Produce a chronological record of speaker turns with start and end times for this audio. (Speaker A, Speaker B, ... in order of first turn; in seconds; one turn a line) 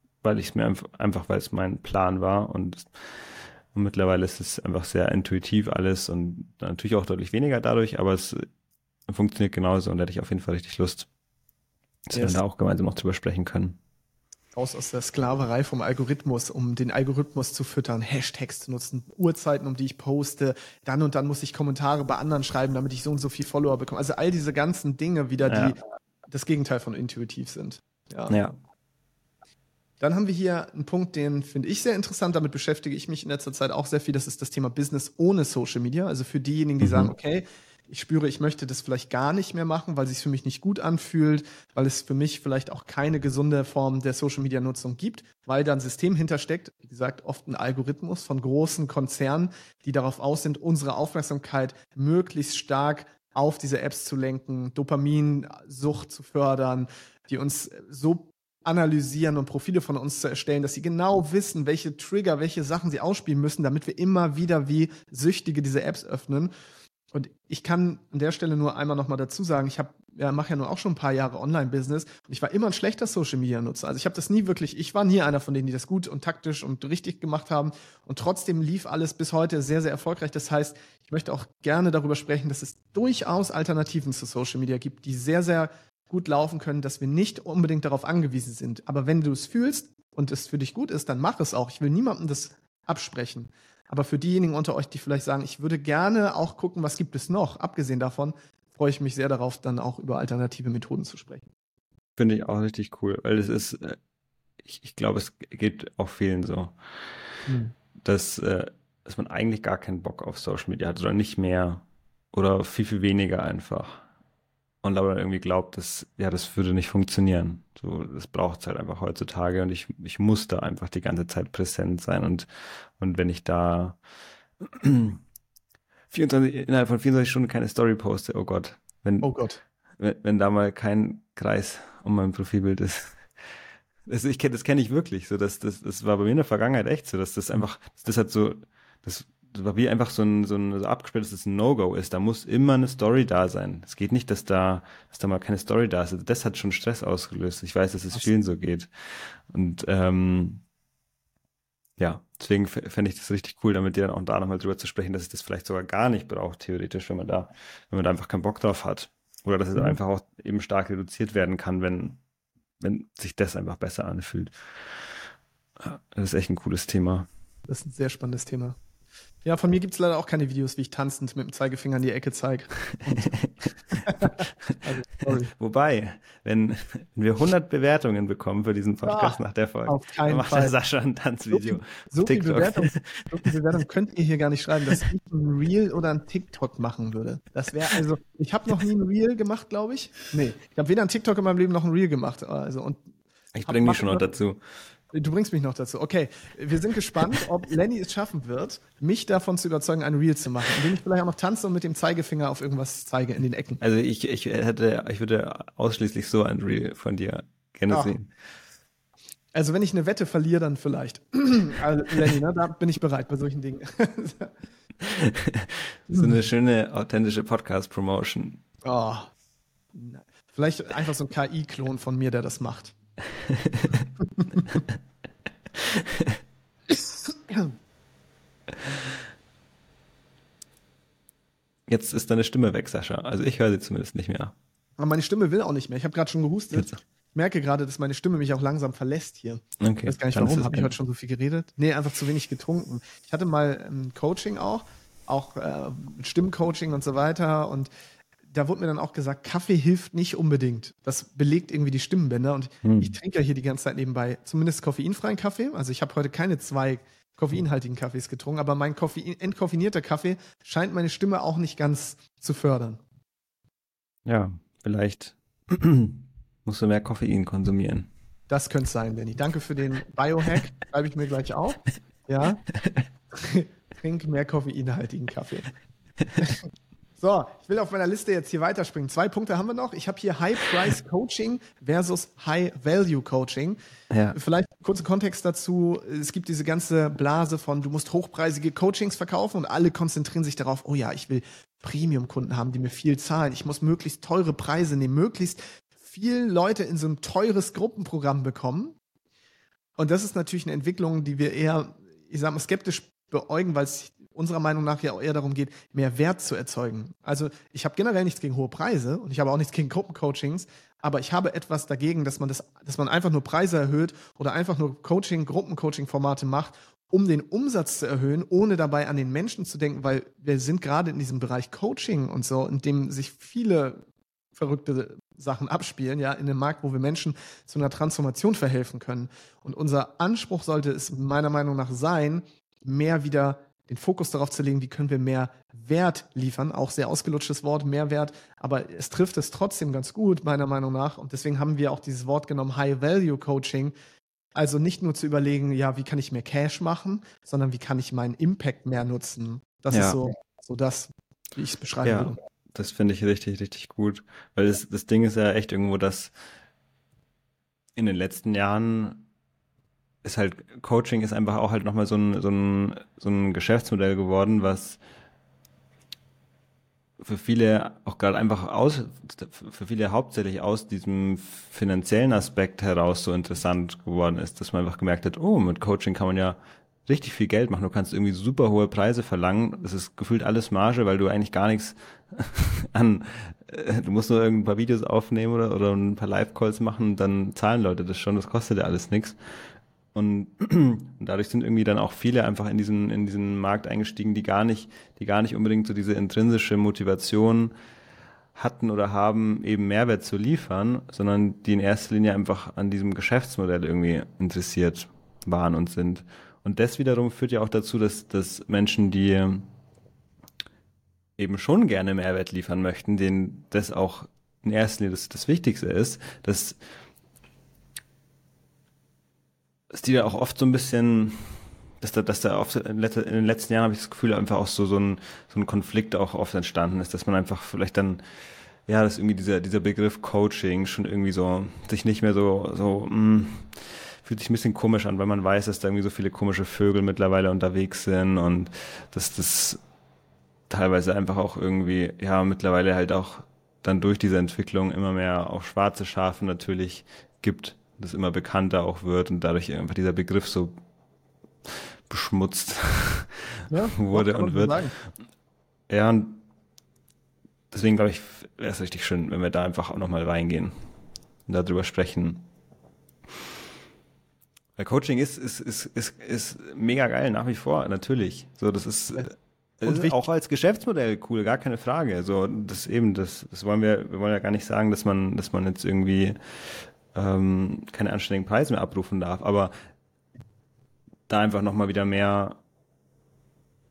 Speaker A: 0.2-8.4
Speaker A: 9.1-11.1
Speaker A: 12.1-13.8
Speaker B: 12.1-12.4
Speaker B: 14.5-25.8
Speaker A: 25.5-25.7
Speaker B: 26.3-28.4
Speaker A: 28.3-28.6
Speaker B: 30.0-66.5
Speaker A: 36.8-37.1
Speaker B: 67.1-101.5
Speaker A: 102.2-104.0
Speaker A: 104.6-106.7
Speaker B: 107.5-107.7
Speaker A: 108.0-114.0
Speaker A: 114.8-124.0
Speaker A: 124.6-125.2
Speaker A: 126.1-129.3
Speaker B: 129.2-129.6
Speaker A: 130.0-133.2
Speaker A: 134.1-150.6
Speaker A: 152.0-162.2
Speaker A: 162.8-165.0
Speaker A: 165.8-167.3
Speaker B: 167.7-168.8
Speaker B: 169.4-175.5
Speaker A: 172.9-183.3
Speaker B: 179.0-180.7
Speaker B: 181.5-193.0
Speaker A: 193.5-194.6
Speaker B: 193.6-194.3
Speaker B: 195.1-203.8
Speaker A: 203.8-208.3
Speaker B: 207.9-208.1
Speaker B: 209.5-214.5
Speaker A: 215.0-218.6
Speaker B: 218.8-219.3
Speaker B: 219.9-222.9
Speaker A: 223.3-224.1
Speaker B: 224.2-224.8
Speaker A: 224.7-225.0
Speaker A: 225.7-226.4
Speaker B: 227.2-227.7
Speaker A: 231.9-234.5
Speaker B: 235.0-247.9
Speaker A: 239.8-240.9
Speaker B: 248.5-263.0
Speaker A: 252.8-253.1
Speaker A: 264.2-268.1
Speaker B: 268.5-272.6
Speaker A: 272.7-273.1
Speaker B: 273.3-275.7
Speaker B: 276.4-276.6
Speaker B: 277.2-283.8
Speaker A: 284.1-284.4
Speaker B: 284.3-298.9
Speaker B: 300.0-324.0
Speaker B: 324.6-343.9
Speaker B: 344.6-352.4
Speaker A: 349.9-350.2
Speaker A: 352.0-356.3
Speaker A: 357.9-359.3
Speaker A: 360.2-365.0
Speaker A: 367.2-389.4
Speaker A: 390.1-397.7
Speaker A: 398.6-409.7
Speaker A: 411.4-416.8
Speaker A: 419.9-428.2
Speaker A: 428.9-439.8
Speaker A: 440.7-450.8
Speaker A: 451.7-454.8
Speaker B: 453.7-454.9
Speaker A: 455.9-456.4
Speaker A: 457.7-460.7
Speaker A: 461.5-462.5
Speaker A: 464.8-479.7
Speaker B: 469.8-470.2
Speaker A: 481.3-482.6